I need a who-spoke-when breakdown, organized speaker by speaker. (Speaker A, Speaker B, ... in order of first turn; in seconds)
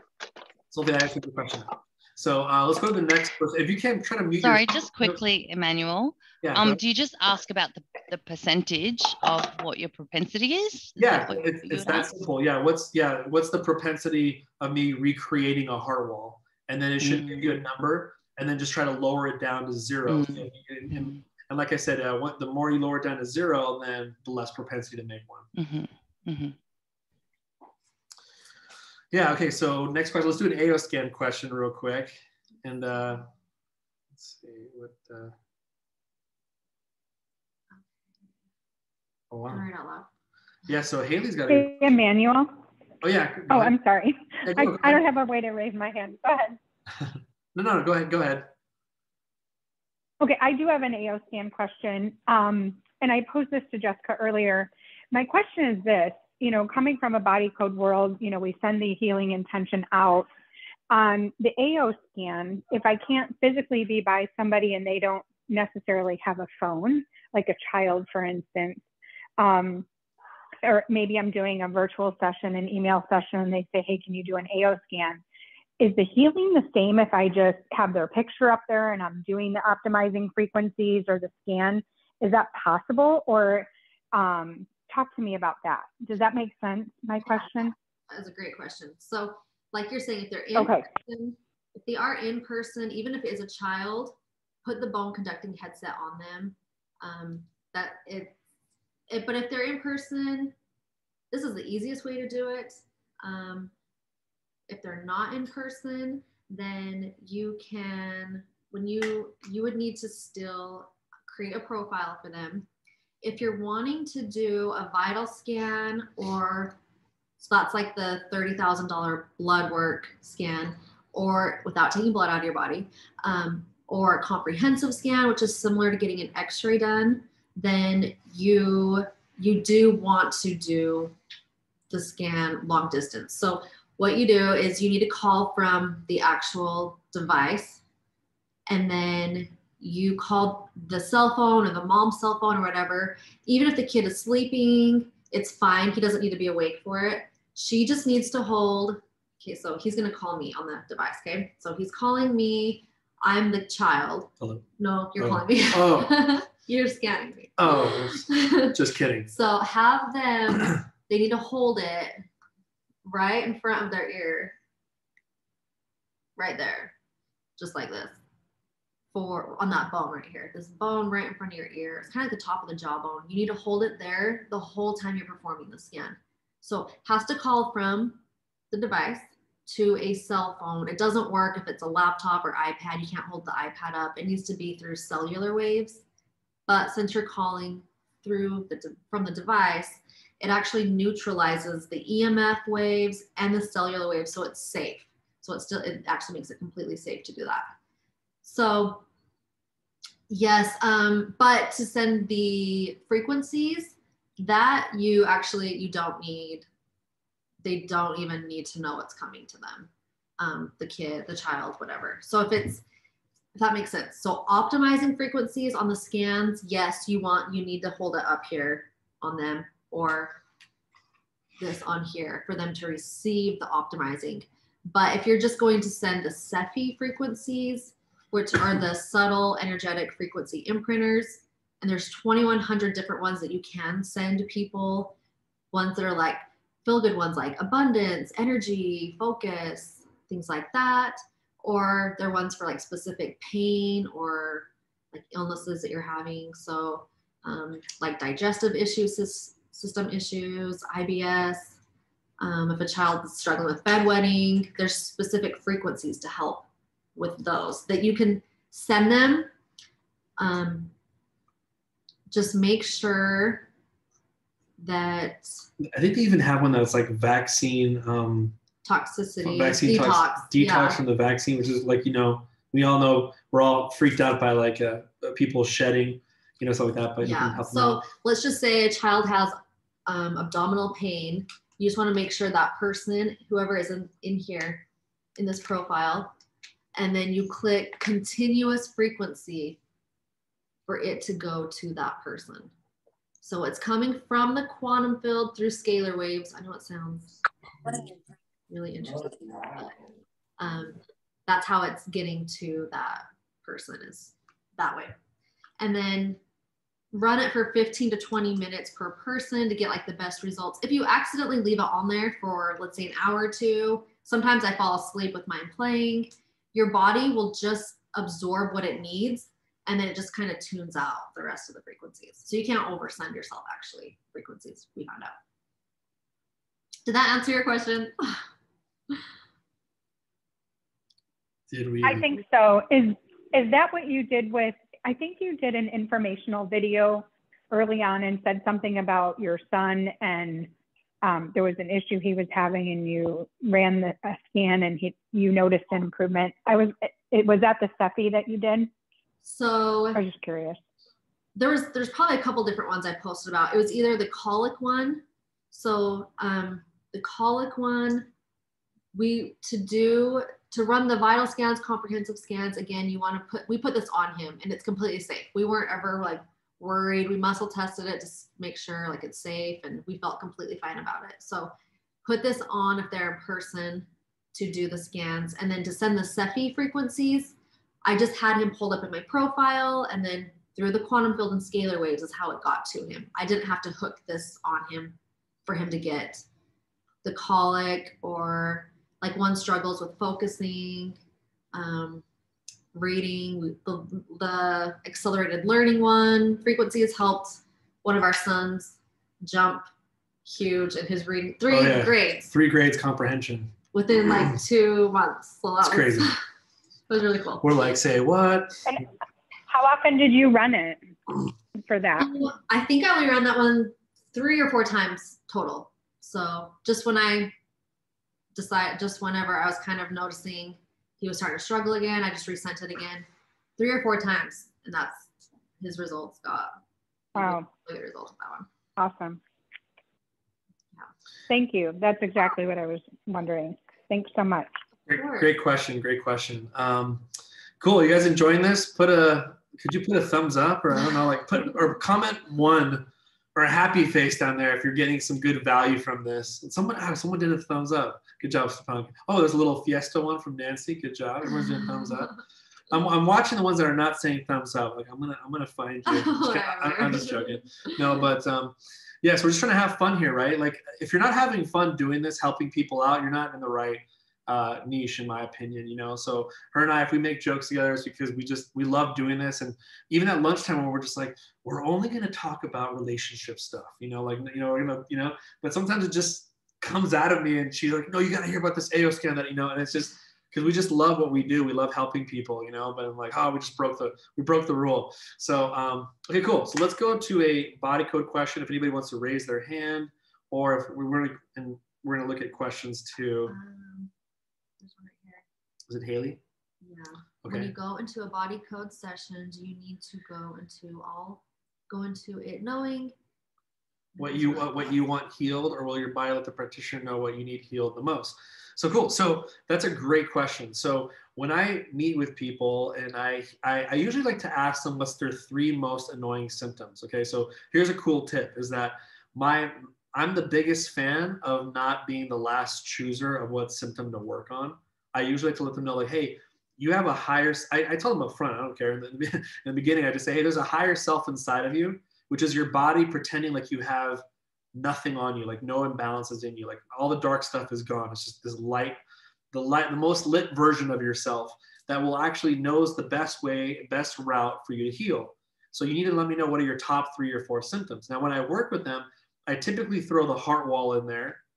Speaker A: 0.7-5.2, 6.4-6.8, 11.0-25.5, 29.1-33.3, 34.1-35.3, 39.3-39.6, 40.7-41.8, 43.0-43.8, 44.4-45.0, 47.0-48.5, 155.2-156.2, 157.6-159.3, 265.8-268.6, 269.4-278.1, 331.7-332.3, 401.7-403.7, 405.8-406.3, 407.6-408.8, 435.1-437.3, 437.8-452.3, 452.9-493.6, 495.9-496.4, 497.4-497.7, 504.2-539.0, 539.5-551.4
Speaker B: 4.4-12.1, 17.0-17.5, 20.1-21.2, 25.6-26.6
Speaker C: 39.5-40.1, 87.2-98.4, 99.1-100.5, 101.3-103.7, 104.7-112.7, 113.2-116.8, 117.4-131.2, 131.9-137.8, 138.7-158.7, 159.3-162.2, 163.1-164.6, 166.4-166.9, 167.6-168.2, 169.1-178.2, 178.7-186.0, 186.7-197.7, 198.4-199.1, 200.3-206.7, 207.6-212.8, 213.6-220.4, 221.6-235.2, 235.7-251.8, 252.4-259.5, 260.4-260.9, 262.3-263.7, 264.8-265.6, 268.8-271.0, 277.2-284.8, 285.4-286.4, 286.9-289.8, 290.9-292.7, 293.4-297.4, 298.7-300.0, 300.6-305.1, 305.8-306.4, 307.1-325.3, 327.1-328.5, 349.4-350.2, 351.6-358.3, 359.1-371.7, 372.2-386.4, 387.2-391.2, 391.7-392.2, 392.9-399.9, 400.5-402.5, 403.9-406.4, 407.1-407.7, 412.2-417.5, 418.6-423.3, 423.8-426.7, 427.4-428.7, 435.1-435.5, 451.6-452.3, 456.1-457.9, 493.5-494.1, 494.8-495.4, 496.8-503.1, 504.1-505.0
Speaker D: 41.5-42.5, 43.5-46.6, 50.2-60.3, 60.9-68.8, 69.4-69.9, 70.6-75.2, 75.8-87.7, 90.5-90.9, 332.0-340.7, 341.2-348.9, 350.1-350.8, 409.7-411.0, 411.8-412.3, 427.4-427.7, 429.0-429.4, 431.5-434.7